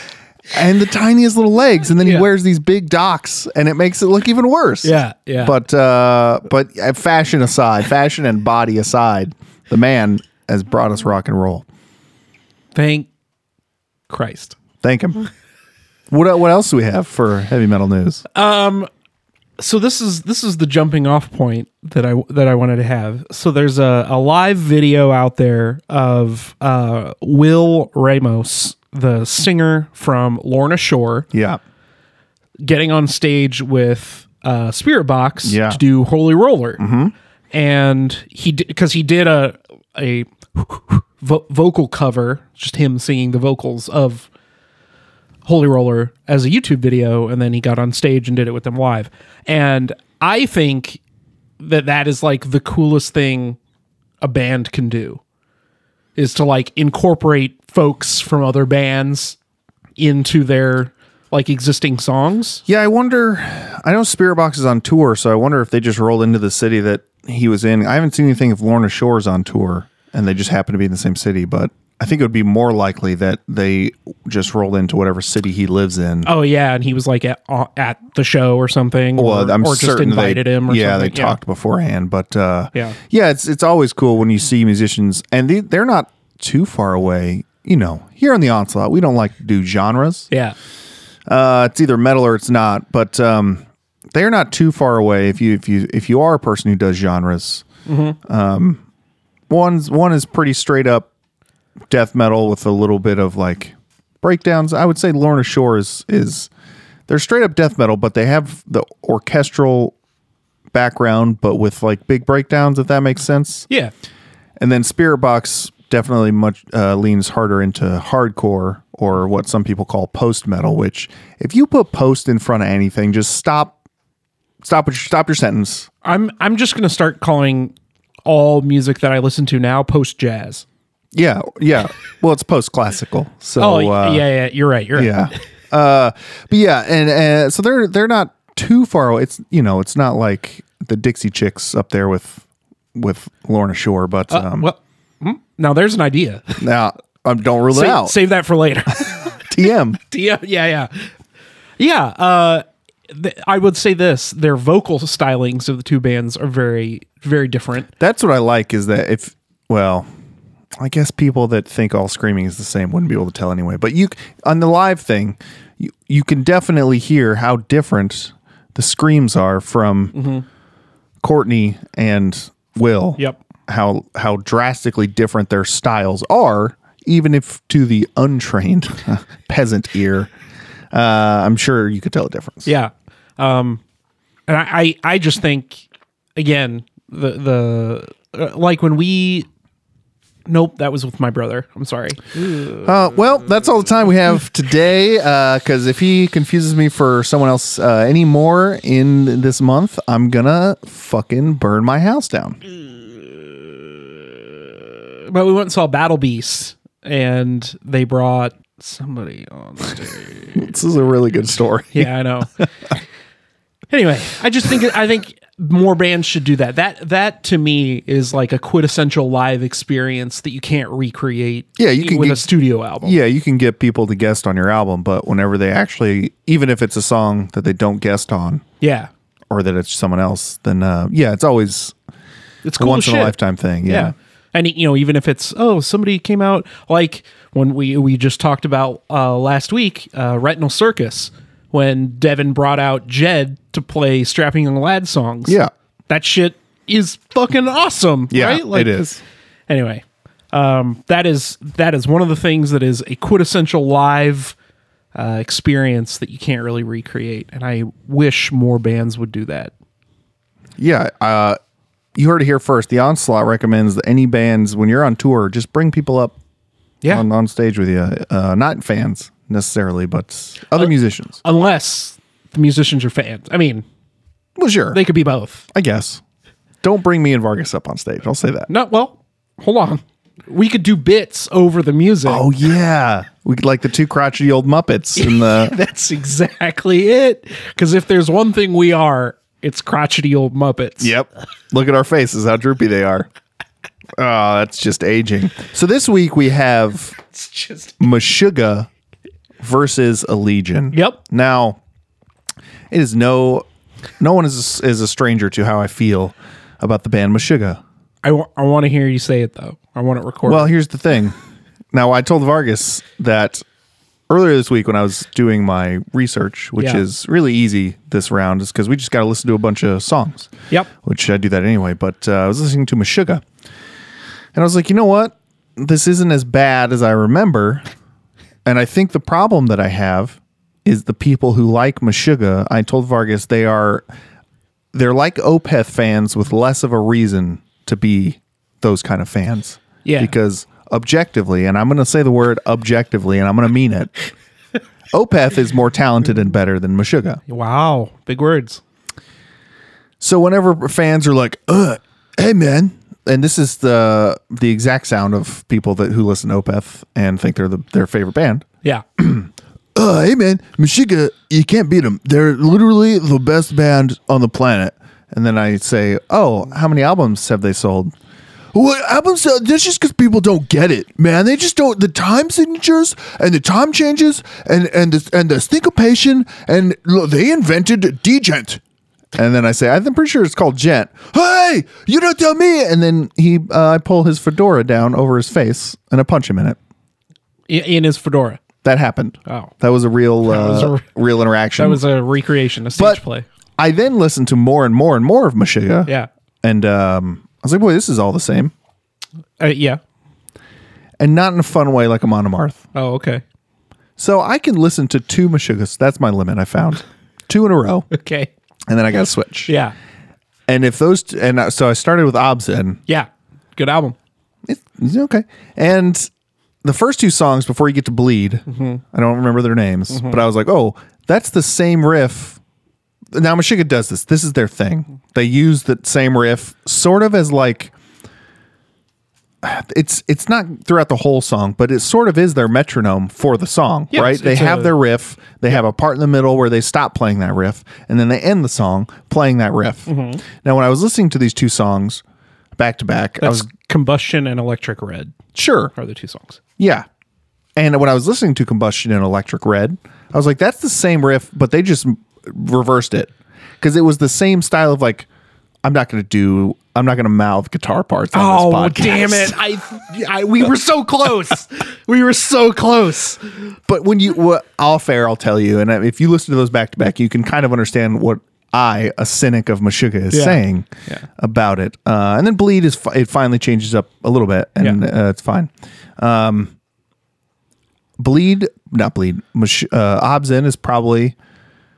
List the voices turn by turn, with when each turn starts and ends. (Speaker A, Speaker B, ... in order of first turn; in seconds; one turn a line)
Speaker A: 0.5-11.6
Speaker B: 4.8-5.5
Speaker B: 12.7-13.1
Speaker B: 14.1-14.6
Speaker A: 14.8-15.2
Speaker A: 16.1-18.2
Speaker B: 18.3-18.9
Speaker B: 19.6-31.3
Speaker A: 31.3-31.6
Speaker B: 32.6-36.8
Speaker A: 35.4-35.8
Speaker A: 36.8-37.1
Speaker B: 37.5-44.3
Speaker B: 45.4-51.0
Speaker B: 51.6-53.6
Speaker B: 54.2-55.2
Speaker B: 56.1-59.4
Speaker B: 60.0-62.6
Speaker A: 62.7-76.3
Speaker B: 76.2-81.4
Speaker A: 79.2-90.3
Speaker B: 90.3-90.5
Speaker A: 91.3-97.6
Speaker B: 97.8-98.2
Speaker A: 98.2-98.8
Speaker A: 99.5-101.1
Speaker A: 101.9-106.5
Speaker A: 107.1-109.9
Speaker A: 110.7-113.7
Speaker A: 114.6-123.8
Speaker A: 124.6-125.9
Speaker B: 126.0-127.7
Speaker B: 128.2-130.6
Speaker A: 131.1-134.2
Speaker B: 133.6-135.3
Speaker A: 134.9-144.7
Speaker B: 144.3-146.6
Speaker A: 146.6-148.2
Speaker B: 147.7-149.4
Speaker A: 149.5-150.0
Speaker B: 150.0-151.1
Speaker B: 151.8-157.9
Speaker A: 158.0-160.1
Speaker A: 160.8-170.2
Speaker B: 170.1-170.4
Speaker A: 171.2-180.3
Speaker A: 180.9-182.7
Speaker B: 182.7-183.8
Speaker B: 184.5-189.5
Speaker B: 190.5-192.9
Speaker A: 192.8-202.6
Speaker B: 205.1-210.6
Speaker A: 210.5-212.1
Speaker B: 211.9-212.5
Speaker B: 213.9-223.2
Speaker A: 221.8-222.5
Speaker A: 223.0-228.6
Speaker B: 228.8-229.1
Speaker A: 229.5-231.9
Speaker B: 232.6-245.6
Speaker A: 232.8-234.1
Speaker B: 246.1-249.1
Speaker A: 248.3-249.2
Speaker B: 249.7-254.6
Speaker B: 255.1-259.7
Speaker A: 260.8-261.6
Speaker A: 262.1-266.4
Speaker A: 267.1-271.4
Speaker B: 270.8-273.8
Speaker A: 274.6-275.0
Speaker B: 274.9-275.6
Speaker A: 275.7-276.2
Speaker A: 276.8-278.7
Speaker B: 278.7-282.5
Speaker A: 282.2-285.7
Speaker B: 285.2-291.1
Speaker A: 291.0-293.3
Speaker A: 294.2-297.2
Speaker B: 297.4-297.9
Speaker A: 298.0-298.9
Speaker A: 299.6-301.8
Speaker B: 300.9-301.2
Speaker A: 302.9-303.6
Speaker A: 304.2-307.8
Speaker B: 308.2-310.7
Speaker A: 310.4-311.4
Speaker A: 311.9-313.6
Speaker A: 314.3-323.4
Speaker B: 316.8-317.0
Speaker A: 324.5-327.8
Speaker A: 328.6-334.0
Speaker A: 334.9-344.1
Speaker B: 340.0-340.3
Speaker A: 345.1-347.4
Speaker B: 347.5-348.8
Speaker A: 350.2-358.6
Speaker A: 359.2-368.1
Speaker A: 368.7-378.8
Speaker A: 379.3-386.8
Speaker B: 387.7-388.6
Speaker A: 388.8-392.0
Speaker B: 389.4-389.7
Speaker B: 390.4-391.1
Speaker B: 391.8-393.4
Speaker A: 392.9-393.2
Speaker A: 393.8-396.1
Speaker A: 396.6-398.7
Speaker B: 399.6-400.0
Speaker A: 401.2-402.8
Speaker B: 402.9-403.4
Speaker A: 404.2-408.1
Speaker B: 408.1-408.5
Speaker A: 408.9-409.7
Speaker B: 409.7-409.9
Speaker A: 410.7-413.0
Speaker B: 413.1-414.1
Speaker A: 414.6-416.3
Speaker A: 416.8-422.6
Speaker B: 418.7-419.0
Speaker B: 420.1-420.4
Speaker A: 423.3-427.9
Speaker A: 429.6-442.2
Speaker B: 434.1-434.9
Speaker B: 440.1-440.4
Speaker A: 442.8-443.7
Speaker B: 443.4-445.4
Speaker A: 445.5-445.9
Speaker B: 445.9-446.6
Speaker A: 446.8-447.1
Speaker A: 447.8-455.3
Speaker A: 455.8-459.6
Speaker B: 458.3-463.7
Speaker A: 463.9-476.7
Speaker B: 470.3-471.2
Speaker A: 478.2-481.4